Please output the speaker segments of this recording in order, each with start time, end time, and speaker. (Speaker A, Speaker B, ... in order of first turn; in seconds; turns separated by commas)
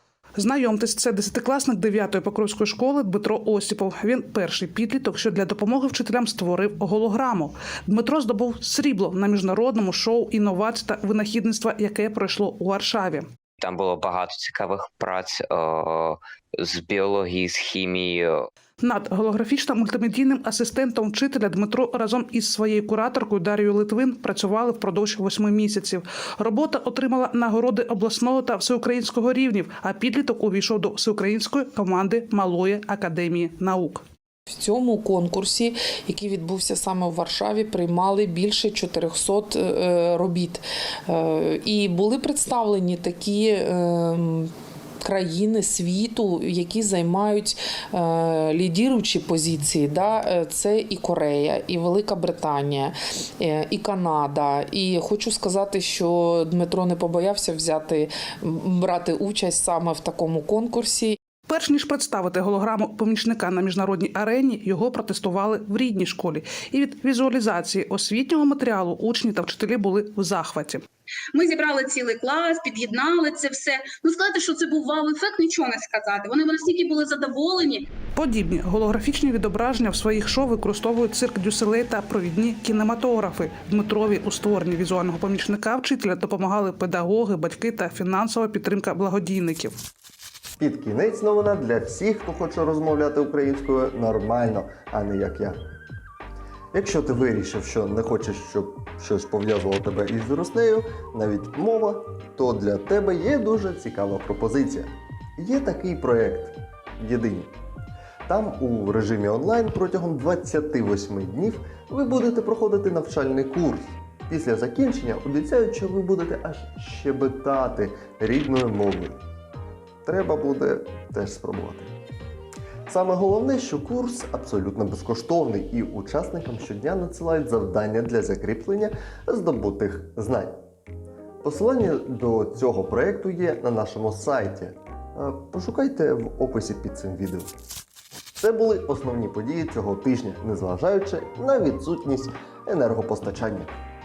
Speaker A: 0.4-13.3, Speaker B: 13.6-18.5, Speaker A: 18.8-34.0, Speaker C: 34.5-44.5, Speaker C: 45.0-61.1, Speaker A: 61.5-70.8, Speaker D: 71.3-77.9, Speaker A: 78.1-89.8, Speaker E: 90.6-95.6, Speaker E: 96.7-107.5, Speaker E: 108.2-119.2, Speaker E: 120.0-121.9, Speaker E: 122.9-130.5, Speaker E: 131.4-137.5, Speaker E: 138.4-143.7